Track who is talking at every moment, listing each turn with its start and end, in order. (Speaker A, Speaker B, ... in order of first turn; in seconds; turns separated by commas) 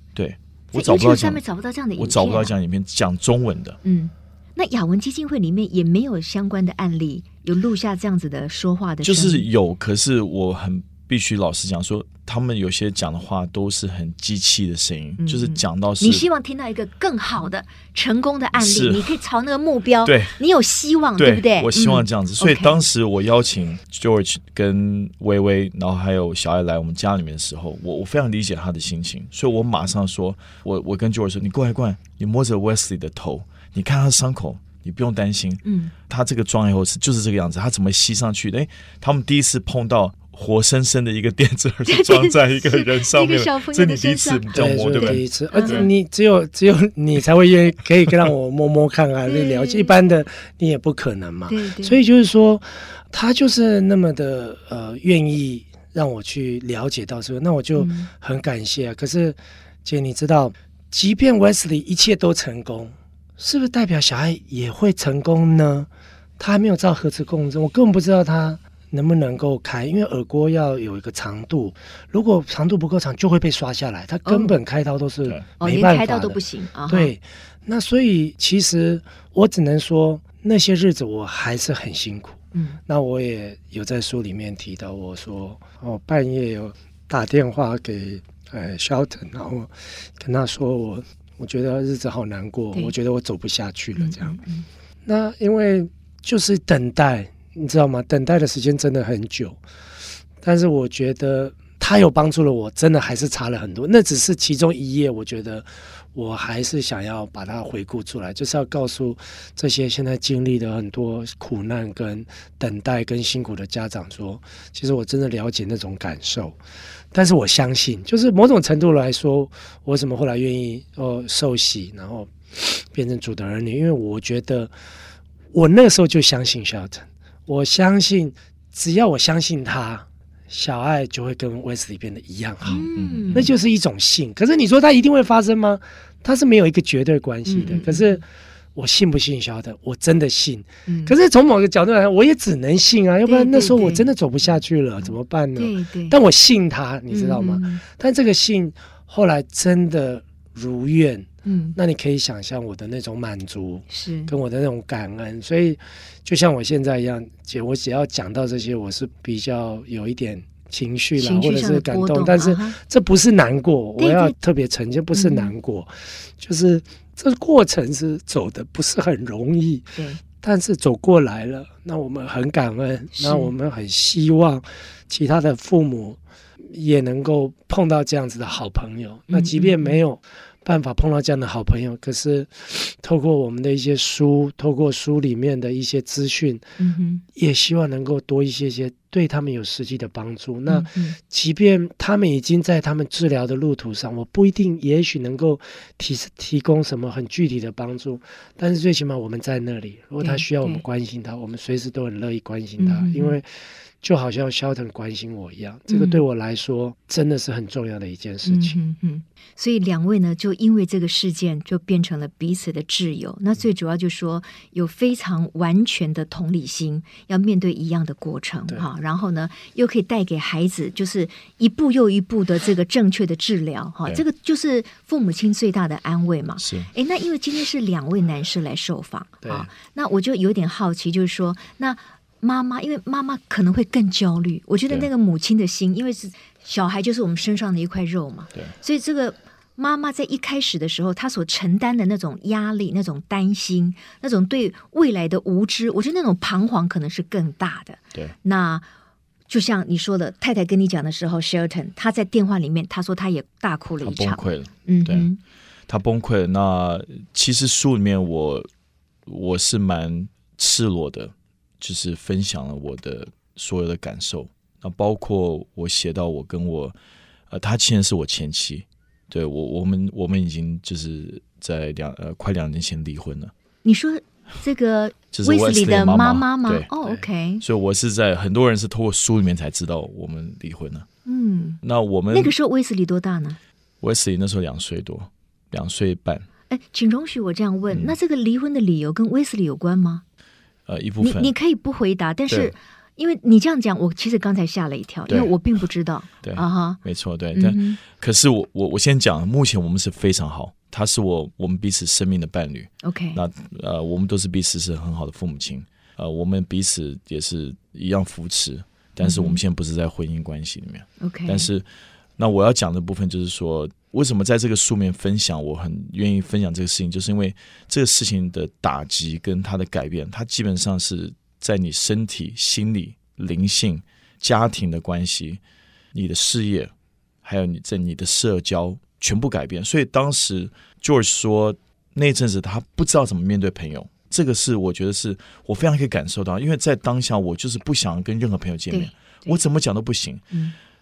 Speaker A: 0.1-1.4, Speaker B: 0.7-2.5, Speaker A: 2.0-3.8, Speaker B: 3.8-9.4, Speaker A: 9.0-16.2, Speaker B: 15.2-22.8, Speaker A: 18.6-19.1, Speaker A: 20.1-20.4, Speaker A: 21.2-45.9, Speaker B: 35.6-35.9, Speaker B: 41.9-45.9, Speaker C: 44.5-94.4, Speaker B: 49.3-49.9, Speaker B: 51.5-52.0, Speaker B: 57.8-58.1, Speaker B: 74.3-74.5, Speaker B: 75.6-77.1, Speaker B: 82.5-82.8, Speaker B: 94.0-94.7, Speaker C: 95.1-99.6, Speaker C: 100.4-116.6, Speaker C: 117.1-124.7, Speaker C: 125.5-186.7, Speaker B: 132.7-133.5, Speaker A: 132.9-133.5, Speaker B: 137.5-138.2, Speaker B: 140.9-141.1, Speaker B: 143.3-144.1, Speaker B: 145.6-146.2, Speaker B: 147.1-147.8, Speaker B: 151.4-151.8, Speaker B: 153.9-154.3, Speaker B: 161.2-162.8, Speaker B: 164.0-164.3, Speaker B: 165.1-165.5, Speaker B: 173.2-173.5, Speaker B: 179.3-180.0, Speaker B: 186.8-187.2, Speaker C: 187.3-203.5, Speaker B: 190.7-191.2, Speaker B: 200.2-200.8, Speaker B: 202.8-203.4, Speaker C: 204.0-208.8, Speaker B: 205.9-206.2, Speaker B: 208.4-248.9, Speaker A: 226.6-226.9, Speaker B: 249.5-255.4, Speaker A: 254.0-255.3, Speaker A: 255.9-258.7, Speaker A: 259.3-266.9, Speaker A: 267.5-273.5, Speaker B: 273.8-277.6, Speaker A: 275.3-276.9, Speaker A: 277.6-281.1, Speaker B: 281.3-283.6, Speaker A: 281.8-282.6, Speaker A: 284.0-286.4, Speaker B: 286.7-290.2, Speaker A: 290.9-291.5, Speaker B: 291.2-297.0, Speaker A: 296.4-311.9, Speaker B: 297.5-298.0, Speaker B: 303.0-303.4, Speaker B: 309.2-309.6, Speaker B: 311.2-311.7, Speaker A: 312.4-325.6, Speaker A: 326.1-326.9, Speaker A: 327.4-340.4, Speaker B: 338.9-339.6